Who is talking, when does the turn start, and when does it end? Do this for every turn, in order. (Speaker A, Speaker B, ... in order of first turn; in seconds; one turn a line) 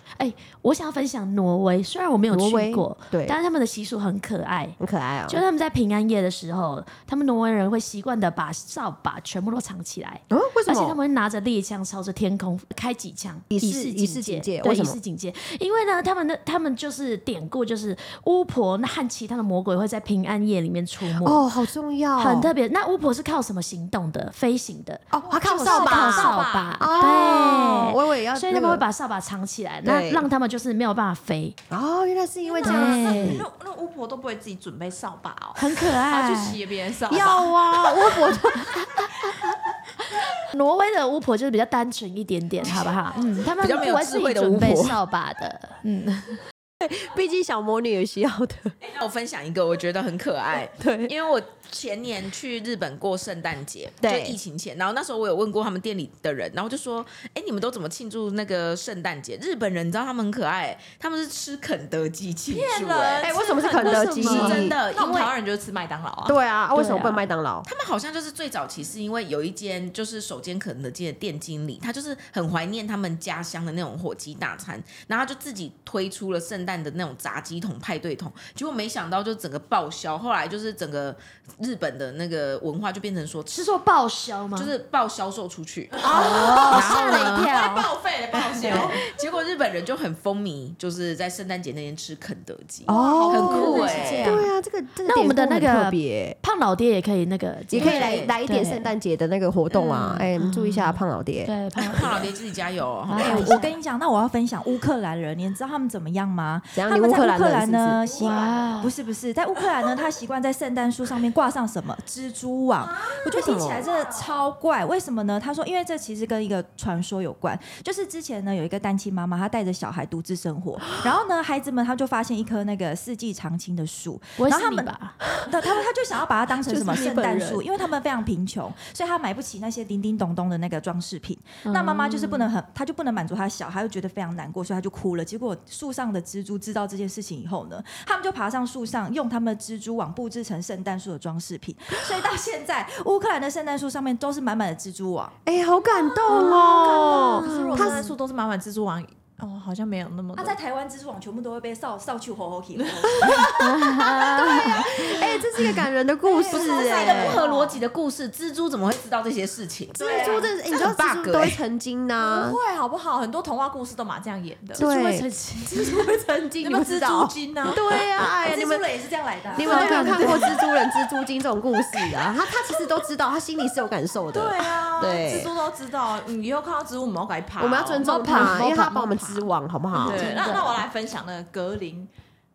Speaker A: 0.2-4.8
Speaker B: 2.3-3.4
Speaker B: 4.8-5.4
Speaker A: 5.3-21.4
Speaker B: 10.3-11.0
Speaker B: 13.5-15.0
Speaker B: 21.2-22.5
Speaker A: 22.2-31.6
Speaker B: 25.1-28.8
Speaker C: 25.2-26.9
Speaker B: 29.9-30.3
Speaker B: 31.7-33.5
Speaker C: 32.5-38.1
Speaker A: 32.6-33.4
Speaker A: 35.6-36.6
Speaker B: 37.1-39.3
Speaker A: 40.4-46.4
Speaker D: 43.6-45.0
Speaker B: 46.8-48.7
Speaker D: 48.8-63.3
Speaker B: 50.8-51.1
Speaker B: 54.0-54.4
Speaker C: 62.5-66.4
Speaker B: 63.2-64.8
Speaker A: 63.8-64.7
Speaker D: 63.9-65.3
Speaker B: 66.2-67.7
Speaker A: 66.8-67.2
Speaker D: 67.7-83.6
Speaker A: 83.5-84.7
Speaker D: 84.6-87.5
Speaker C: 86.0-89.0
Speaker A: 86.1-87.9
Speaker B: 86.1-86.7
Speaker D: 88.6-94.4
Speaker B: 92.9-96.4
Speaker A: 92.9-94.5
Speaker C: 93.5-94.3
Speaker A: 95.0-98.9
Speaker B: 97.7-101.5
Speaker D: 97.8-98.3
Speaker D: 99.7-100.3
Speaker A: 100.4-102.3
Speaker D: 101.8-103.5
Speaker A: 103.1-103.7
Speaker E: 103.2-145.4
Speaker B: 106.8-108.0
Speaker C: 108.1-108.6
Speaker A: 108.1-108.9
Speaker C: 112.8-114.3
Speaker B: 113.3-113.9
Speaker A: 124.4-125.2
Speaker B: 126.7-127.6
Speaker A: 131.7-132.5
Speaker B: 145.5-148.1
Speaker C: 146.3-150.6
Speaker E: 146.8-147.5
Speaker A: 147.5-148.0
Speaker E: 150.3-153.6
Speaker B: 153.1-157.4
Speaker A: 153.6-154.8
Speaker E: 156.3-157.4
Speaker D: 156.5-161.6
Speaker C: 156.5-157.7
Speaker B: 159.9-162.6
Speaker E: 160.0-160.4
Speaker C: 160.0-160.5
Speaker C: 162.2-164.8
Speaker B: 164.8-168.9
Speaker A: 164.8-165.9
Speaker C: 166.6-170.6
Speaker B: 169.5-175.5
Speaker A: 169.6-170.6
Speaker C: 172.0-172.5
Speaker C: 174.3-179.5
Speaker B: 177.6-180.4
Speaker A: 178.1-178.6
Speaker A: 180.0-180.8
Speaker C: 180.0-182.1